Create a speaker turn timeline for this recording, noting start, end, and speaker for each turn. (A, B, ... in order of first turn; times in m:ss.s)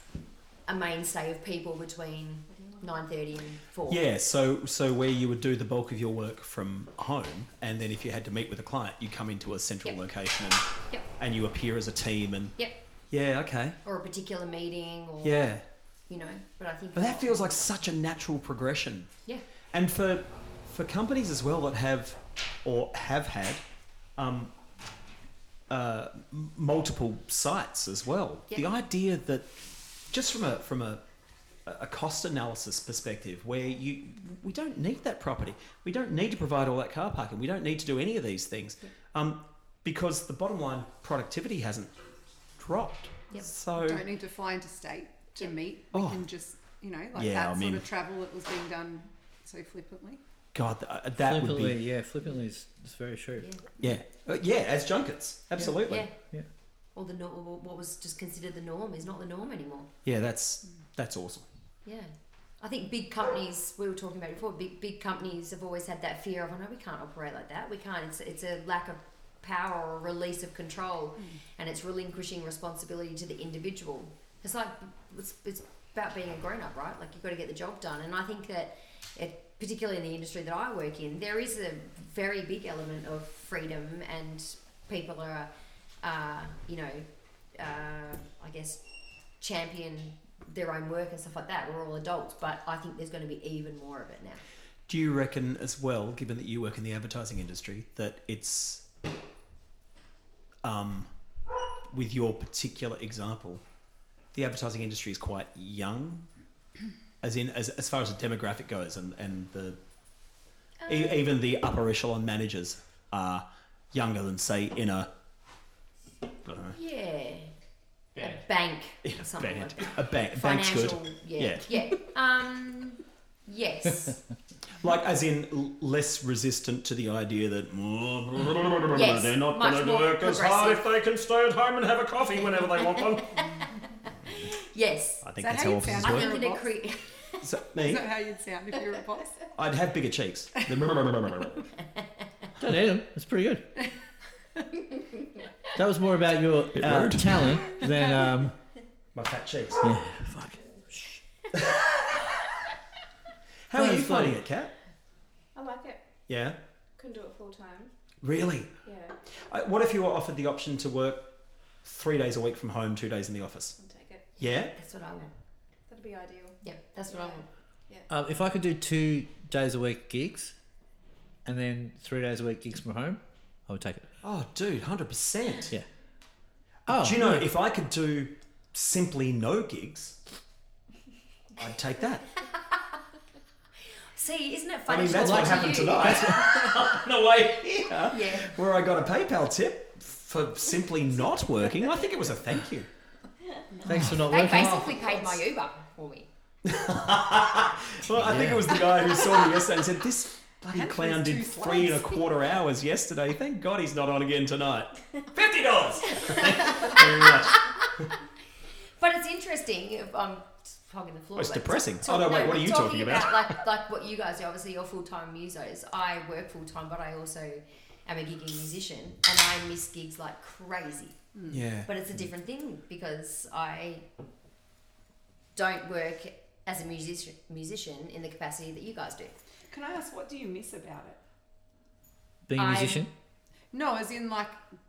0:00.7-0:04.0 A
0:03.9-0:12.6 B
0:13.1-0:13.8 B
0:13.8-0:15.6 A
0:15.2-0:15.6 B
0:16.1-0:17.7 A
0:16.9-0:19.1 B
0:19.7-0:23.6 B
0:24.2-0:24.5 B
0:25.7-0:31.0 B
0:31.6-0:41.9 B
0:42.6-0:44.0 B
0:43.8-0:50.2 C
0:45.9-0:46.2 B
0:47.1-0:47.8 B
0:50.5-0:51.8 B
0:51.2-0:53.5 D
0:53.8-0:56.1 B
0:55.8-0:56.1 A
0:56.9-0:59.9 A
1:00.0-1:01.5 B
1:01.8-1:25.5 A
1:26.0-1:27.0 A
1:27.6-1:28.8 A
1:29.4-1:34.4 A
1:34.9-1:38.8 B
1:40.6-1:41.1 B
1:41.9-1:43.6 B
1:44.3-1:46.3 B
1:47.2-1:49.8 B
1:50.9-1:55.1 B
1:56.4-1:56.8 B
1:56.7-1:57.5 A
1:58.2-2:04.2 A
1:59.0-2:01.7 B
2:04.8-2:13.4 B
2:08.9-2:10.9 A
2:13.0-2:13.7 A
2:14.4-2:15.3 A
2:15.2-2:16.3 B
2:15.4-2:16.7 C
2:16.0-2:17.4 A
2:17.4-2:18.1 B
2:17.8-2:19.4 C
2:19.5-2:21.6 B
2:22.6-2:23.6 D
2:25.7-2:28.5 D
2:26.7-2:27.7 B
2:29.1-2:29.9 B
2:29.8-2:31.2 D
2:33.7-2:34.7 B
2:33.7-2:34.4 D
2:35.5-2:36.0 E
2:36.3-2:36.6 B
2:37.0-2:37.9 E
2:38.2-2:38.7 B
2:38.8-2:39.1 E
2:39.5-2:43.8 B
2:43.8-2:44.3 E
2:44.4-2:44.7 B
2:44.8-2:45.3 A
2:45.9-2:48.1 E
2:46.6-2:47.5 A
2:48.1-2:50.5 D
2:51.4-2:54.1 D
2:54.2-2:55.7 B
2:56.9-2:57.5 D
2:56.9-3:00.2 B
3:01.6-3:02.2 B
3:04.1-3:06.8 A
3:04.9-3:12.9 B
3:05.1-3:06.3 D
3:08.0-3:08.6 A
3:13.8-3:15.0 D
3:14.3-3:16.3 A
3:16.6-3:28.1 B
3:18.1-3:18.7 D
3:20.7-3:22.2 C
3:26.2-3:27.3 A
3:29.0-3:41.2 A
3:31.4-3:33.6 B
3:41.4-3:41.6 C
3:41.5-3:41.9 B
3:41.8-3:44.0 A
3:45.5-3:49.4 A
3:49.7-3:51.2 C
3:52.5-3:53.1 D
3:52.6-3:53.0 A
3:53.7-3:54.6 C